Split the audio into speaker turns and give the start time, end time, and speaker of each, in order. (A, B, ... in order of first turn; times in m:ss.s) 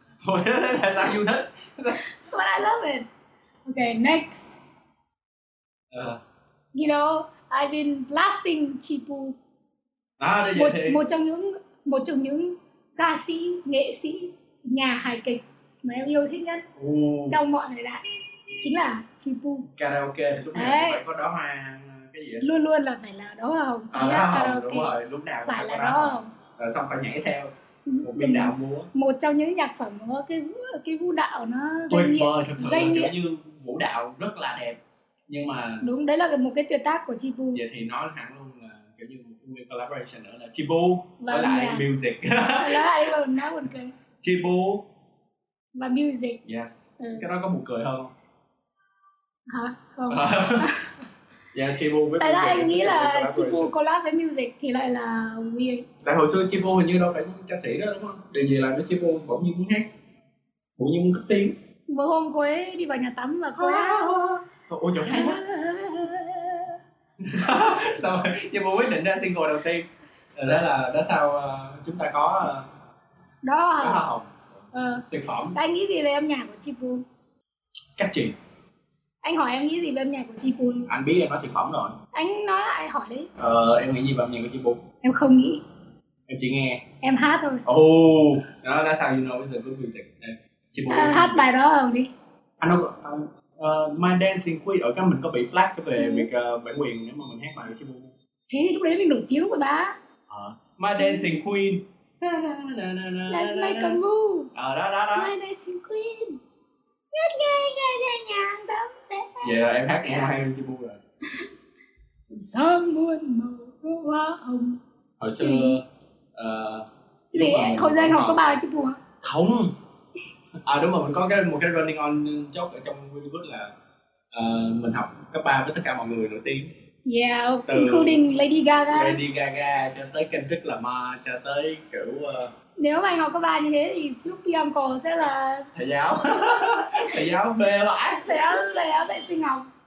0:00.2-0:02.1 A
0:02.1-0:03.1 B
0:03.7-0:04.5 B
0:05.9-0:06.2 A
0:06.7-0:09.4 B
0:10.2-0:11.0 A
0:10.6-0:16.7 B
0:16.8-0:17.4 A
0:17.3-0:18.0 B
0:18.6-0:19.7 B
0:19.7-0:22.5 A
0:20.6-0:21.0 B
0:22.4-0:26.3 B
0:23.9-0:27.5 A
0:27.9-0:33.1 B
0:28.0-0:28.9 A
0:31.9-0:35.9 A
0:35.8-0:37.6 B
0:37.5-0:43.1 A
0:41.2-0:41.8 B
0:42.6-0:44.0 B
0:44.2-0:44.9 A
0:45.8-0:46.4 B
0:46.4-0:48.1 A
0:47.0-0:47.2 B
0:49.5-0:50.9 B
0:50.1-0:50.7 A
0:51.5-0:53.7 A
0:52.2-0:55.9 B
0:56.0-0:59.9 A
1:00.8-1:01.6 A
1:01.9-1:04.1 B
1:03.6-1:05.4 A
1:05.0-1:06.8 B
1:07.2-1:12.7 A
1:13.4-1:14.0 B
1:13.8-1:14.4 A
1:14.7-1:17.0 B
1:15.1-1:15.6 A
1:18.0-1:18.4 A
1:19.2-1:20.9 B
1:20.9-1:22.0 A
1:22.1-1:23.3 B
1:23.4-1:24.8 A
1:25.0-1:25.6 B
1:26.3-1:26.8 A
1:27.0-1:27.6 B
1:27.6-1:31.5 A
1:30.9-1:32.1 B
1:32.6-1:38.1 A
1:36.0-1:36.3 B
1:38.5-1:40.0 B
1:40.3-1:44.0 A
1:41.0-1:41.3 B
1:43.3-1:44.5 B
1:44.5-1:45.3 A
1:45.2-1:46.4 B
1:47.1-1:49.6 B
1:49.4-1:51.0 A
1:52.3-1:54.8 B
1:55.2-1:55.8 A
1:55.4-1:55.8 B
1:56.4-1:58.6 A
1:57.3-1:59.0 B
1:59.2-1:59.7 A
2:00.6-2:03.7 A
2:04.3-2:06.7 A
2:07.1-2:09.2 B
2:07.7-2:08.2 A
2:08.9-2:12.5 A
2:12.8-2:15.7 B
2:15.8-2:18.4 A
2:18.2-2:19.7 B